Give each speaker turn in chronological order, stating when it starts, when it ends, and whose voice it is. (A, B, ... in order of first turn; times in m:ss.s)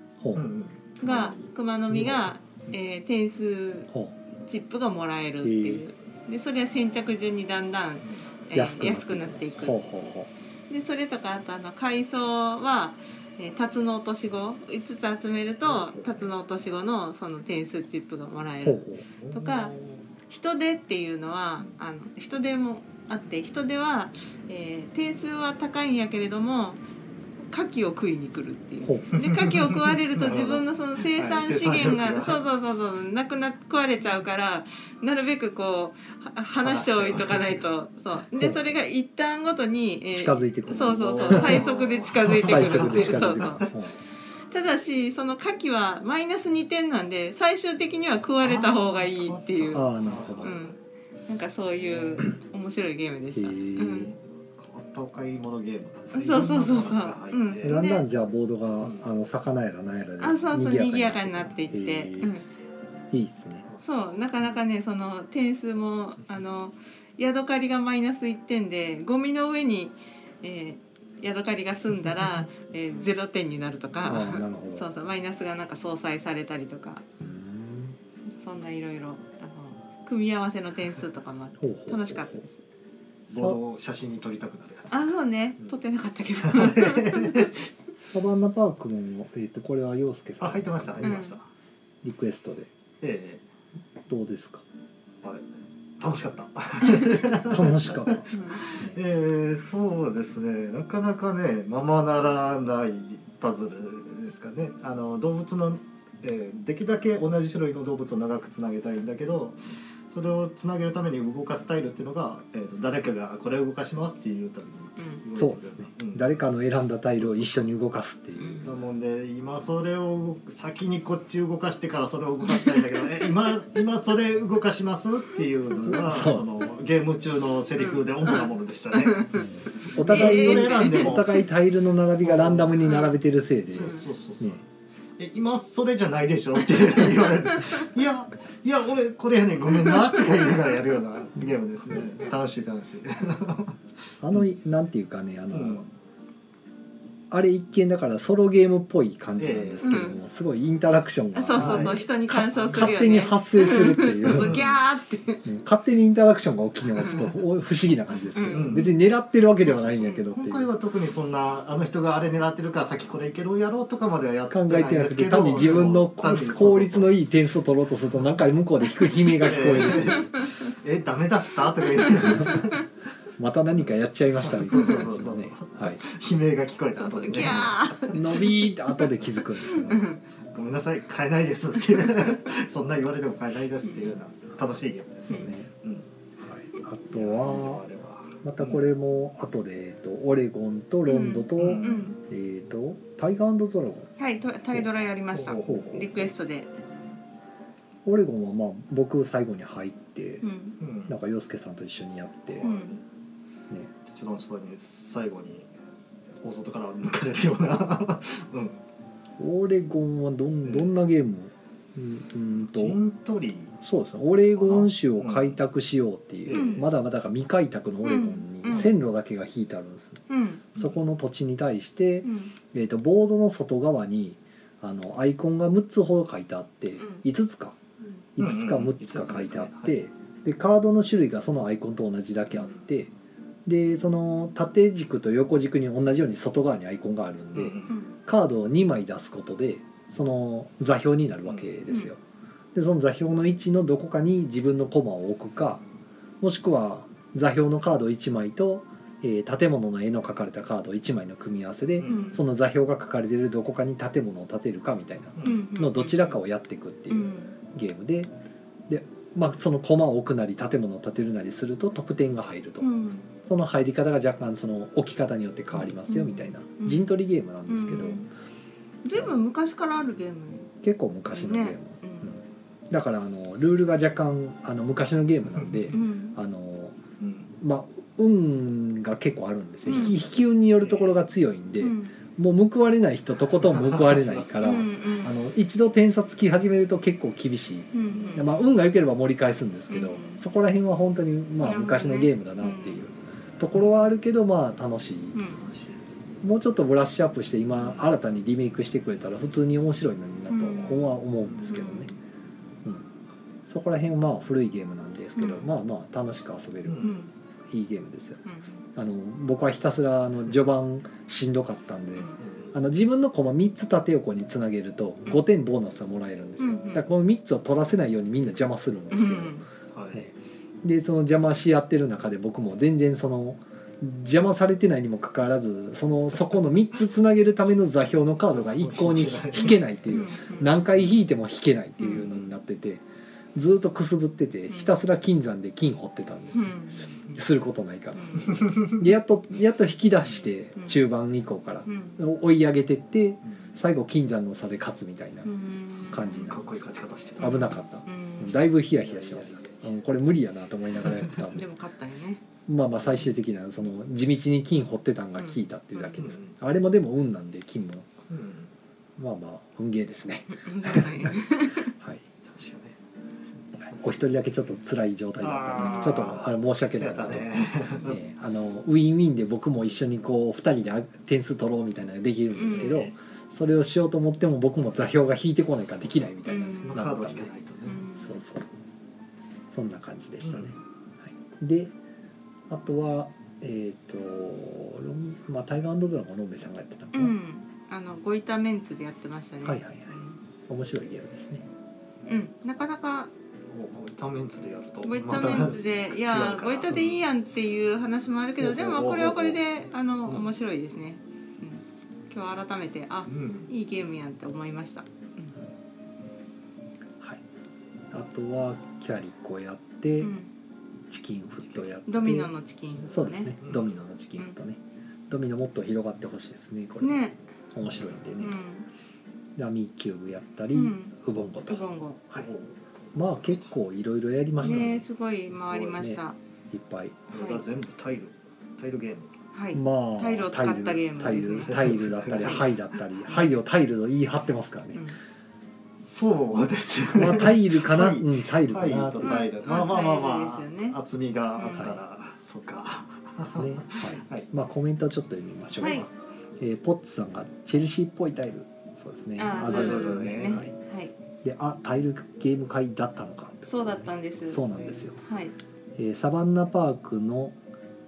0:00.2-0:00.4 A
0:00.3-0:01.5 B
0:01.0-0:09.8 C
0:01.9-0:02.2 A
0:05.4-0:05.8 A
0:08.5-0:10.3 A
0:10.7-0:19.7 C
0:15.6-0:16.2 B
0:18.6-0:19.0 A
0:19.2-0:20.0 B
0:20.2-0:26.8 C
0:27.4-0:43.7 C
0:28.8-0:29.1 A
0:29.1-0:32.4 B
0:36.6-0:37.6 B
0:40.1-0:41.7 A
0:40.8-0:43.7 B
0:42.3-0:44.0 A
0:44.5-0:49.9 C
0:48.4-0:50.8 B
0:49.7-0:50.6 A
0:50.4-0:50.8 C
0:51.3-0:54.1 C
0:53.3-0:54.1 A
0:54.0-0:57.8 B
0:56.1-0:58.0 C
0:57.6-1:02.3 A
1:00.2-1:02.5 C
1:03.1-1:03.7 A
1:03.7-1:04.0 B
1:03.8-1:17.0 C
1:14.0-1:14.9 A
1:17.2-1:18.0 A
1:18.4-1:22.6 C
1:21.6-1:22.4 A
1:23.3-1:25.7 B
1:23.3-1:23.6 A
1:24.9-1:27.5 C
1:26.4-1:27.6 B
1:28.1-1:31.2 A
1:30.4-1:31.4 B
1:31.0-1:31.4 C
1:32.0-1:32.7 A
1:33.0-1:33.4 B
1:34.1-1:34.6 A
1:36.0-1:56.3 B
1:37.4-1:39.0 A
1:38.3-1:38.6 C
1:55.4-1:58.7 A
1:57.2-1:57.6 B
1:58.4-1:58.7 C
1:58.6-2:09.3 B
2:05.8-2:06.4 A
2:07.8-2:11.1 C
2:09.3-2:14.6 A
2:09.8-2:11.4 B
2:12.2-2:13.1 B
2:13.7-2:14.6 B
2:15.2-2:23.8 B
2:24.2-2:25.9 A
2:25.5-2:25.8 B
2:27.3-2:34.6 A
2:29.4-2:29.9 B
2:29.8-2:30.2 C
2:31.3-2:35.4 C
2:31.5-2:32.0 B
2:34.3-2:34.7 B
2:35.4-2:40.7 A
2:37.0-2:37.2 C
2:38.3-2:38.8 C
2:38.5-2:38.9 B
2:39.7-2:47.1 B
2:44.5-2:50.3 A
2:49.4-2:52.8 B
2:50.0-2:50.7 C
2:52.0-2:52.8 C
2:52.2-2:52.6 A
2:53.4-2:56.0 A
2:54.4-2:58.2 B
2:57.0-3:00.2 C
2:57.3-3:00.1 A
3:00.5-3:06.1 B
3:03.8-3:04.2 C
3:05.3-3:05.7 A
3:06.4-3:07.8 A
3:07.1-3:08.8 B
3:08.4-3:14.1 A
3:11.0-3:12.2 C
3:11.6-3:12.1 B
3:14.2-3:16.7 C
3:15.3-3:15.9 B
3:15.6-3:16.3 A
3:18.0-3:20.4 A
3:20.4-3:20.8 C
3:20.8-3:21.1 B
3:21.1-3:22.7 A
3:22.6-3:23.0 B
3:22.6-3:23.0 C
3:24.1-3:25.7 B
3:26.4-3:28.8 B
3:29.4-3:33.0 A
3:32.7-3:33.8 B
3:33.8-3:40.2 A
3:34.6-3:35.5 B
3:36.4-3:36.9 B
3:36.5-3:36.8 C
3:38.0-3:38.9 C
3:40.3-3:40.7 C
3:40.8-3:47.8 A
3:42.2-3:42.5 C
3:47.0-3:47.2 C
3:48.4-3:53.1 A
3:48.4-3:49.9 B
3:52.5-3:52.8 B
3:53.6-4:02.2 A
3:57.5-3:58.0 B
3:57.9-3:58.2 C
4:01.4-4:01.7 B
4:02.7-4:05.8 A
4:06.4-4:18.3 A
4:12.0-4:12.4 B
4:12.0-4:12.4 C
4:15.4-4:15.6 B
4:15.4-4:16.4 C
4:17.1-4:17.5 C
4:18.9-4:22.9 A
4:22.8-4:23.3 C
4:23.4-4:28.2 A
4:26.1-4:27.1 C
4:27.7-4:28.3 C
4:29.0-4:30.7 C
4:30.8-4:37.0 A
4:31.3-4:32.3 C
4:35.5-4:36.0 B
4:35.9-4:36.4 C
4:37.2-4:37.5 B
4:37.6-4:55.4 A
4:39.9-4:40.2 C
4:39.9-4:40.2 B
4:40.8-4:41.2 B
4:41.8-4:42.1 C
4:43.7-4:44.8 B
4:44.6-4:45.3 C
4:47.9-4:48.5 C
4:48.1-4:48.5 B
4:49.9-4:50.4 C
4:51.6-4:53.0 C
4:55.3-4:55.6 C
4:55.5-4:56.2 B
4:56.4-5:02.1 A
5:00.5-5:02.1 C
5:03.7-5:07.2 A
5:05.4-5:05.7 C
5:06.8-5:07.2 B
5:07.0-5:07.3 C
5:07.7-5:08.4 A
5:08.4-5:08.8 C
5:09.0-5:19.6 A
5:12.4-5:12.7 B
5:16.6-5:17.0 C
5:19.1-5:19.6 C
5:19.9-5:20.2 B
5:20.1-5:33.0 A
5:28.4-5:29.8 B
5:30.1-5:30.7 C
5:32.0-5:32.2 C
5:33.5-5:36.7 A
5:36.5-5:37.2 C
5:37.3-5:45.5 A
5:38.2-5:38.6 C
5:38.4-5:39.0 B
5:41.8-5:42.2 C
5:43.4-5:43.7 B
5:45.4-5:46.6 C
5:46.1-5:46.8 A
5:46.2-5:47.8 B
5:47.4-5:51.6 A
5:47.4-5:48.6 C
5:48.9-5:49.8 B
5:51.0-5:51.4 B
5:51.5-5:52.4 C
5:52.7-5:58.1 A
5:55.4-5:56.2 C
5:56.2-5:56.6 B
5:58.3-5:58.7 B
5:59.2-6:02.2 A
6:00.5-6:01.9 C
6:02.4-6:03.0 B
6:03.8-6:07.5 A
6:05.4-6:08.2 B
6:05.8-6:06.2 C
6:08.0-6:17.5 A
6:12.5-6:13.1 C
6:12.7-6:13.1 B
6:16.4-6:17.0 C
6:16.9-6:18.0 B
6:17.8-6:18.4 C
6:18.2-6:18.7 A
6:19.7-6:21.9 A
6:20.4-6:20.7 B
6:22.7-6:27.3 A
6:27.1-6:30.4 C
6:29.6-6:30.2 A
6:30.7-6:31.6 A
6:32.2-6:33.3 C
6:33.7-6:37.1 B
6:35.0-6:45.5 C
6:38.6-6:39.6 B
6:43.3-6:43.7 B
6:48.1-6:50.4 A
6:50.2-6:50.5 C
6:51.1-6:52.5 A
6:52.1-6:53.5 C
6:53.0-6:57.2 A
6:53.6-6:53.9 B
6:57.0-6:57.4 C
6:57.7-6:58.6 A
6:58.4-6:58.9 C
6:59.6-7:02.5 A
7:00.7-7:01.1 C
7:01.7-7:02.2 C
7:02.4-7:03.6 B
7:03.1-7:05.0 A
7:04.6-7:06.4 C
7:04.6-7:04.9 B
7:05.8-7:07.2 A
7:07.3-7:09.4 B
7:07.3-7:07.6 C
7:09.5-7:11.9 C
7:09.7-7:15.0 A
7:11.6-7:12.7 B
7:16.0-7:24.5 B
7:17.1-7:19.4 A
7:19.2-7:21.0 C
7:21.6-7:22.0 C
7:21.7-7:22.0 A
7:23.4-7:26.1 A
7:25.8-7:26.1 C
7:26.6-7:30.7 A
7:29.4-7:31.1 C
7:29.5-7:30.6 B
7:31.4-7:35.2 A
7:33.6-7:35.5 C
7:36.0-7:37.6 A